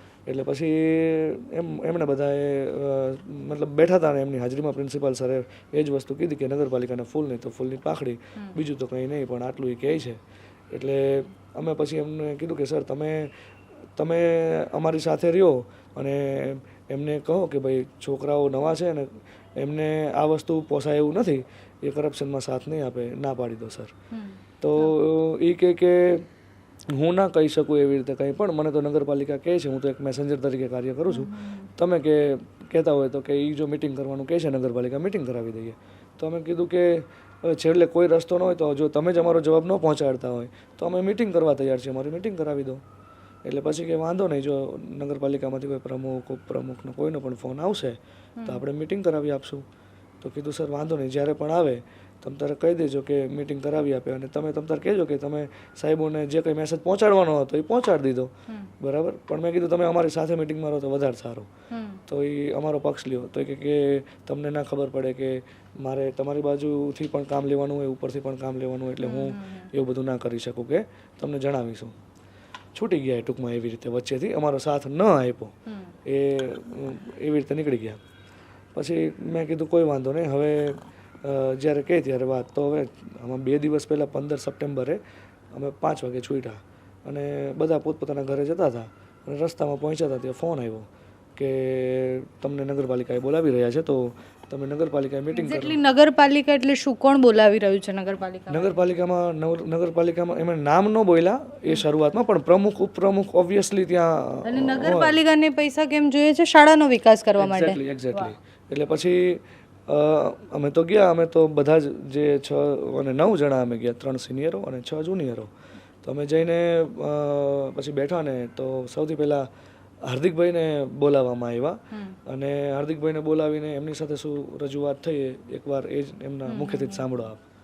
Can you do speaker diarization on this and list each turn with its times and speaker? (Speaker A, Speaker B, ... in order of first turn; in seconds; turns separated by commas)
Speaker A: 0.2-10.2, Speaker A: 10.7-13.3, Speaker A: 13.9-23.9, Speaker B: 24.1-24.9, Speaker A: 24.6-26.2, Speaker A: 26.9-42.8, Speaker B: 31.1-31.7, Speaker A: 43.4-49.6, Speaker B: 48.4-48.6, Speaker A: 50.2-61.5, Speaker B: 61.7-62.0, Speaker A: 62.1-71.9, Speaker B: 69.0-69.7, Speaker A: 72.7-75.5, Speaker B: 75.7-75.9, Speaker A: 76.0-78.0, Speaker A: 78.7-85.0, Speaker A: 85.5-95.8, Speaker B: 95.3-98.8, Speaker A: 98.5-105.2, Speaker B: 104.5-108.3, Speaker A: 107.4-115.5, Speaker A: 116.0-119.5, Speaker A: 120.0-127.4, Speaker B: 126.5-127.0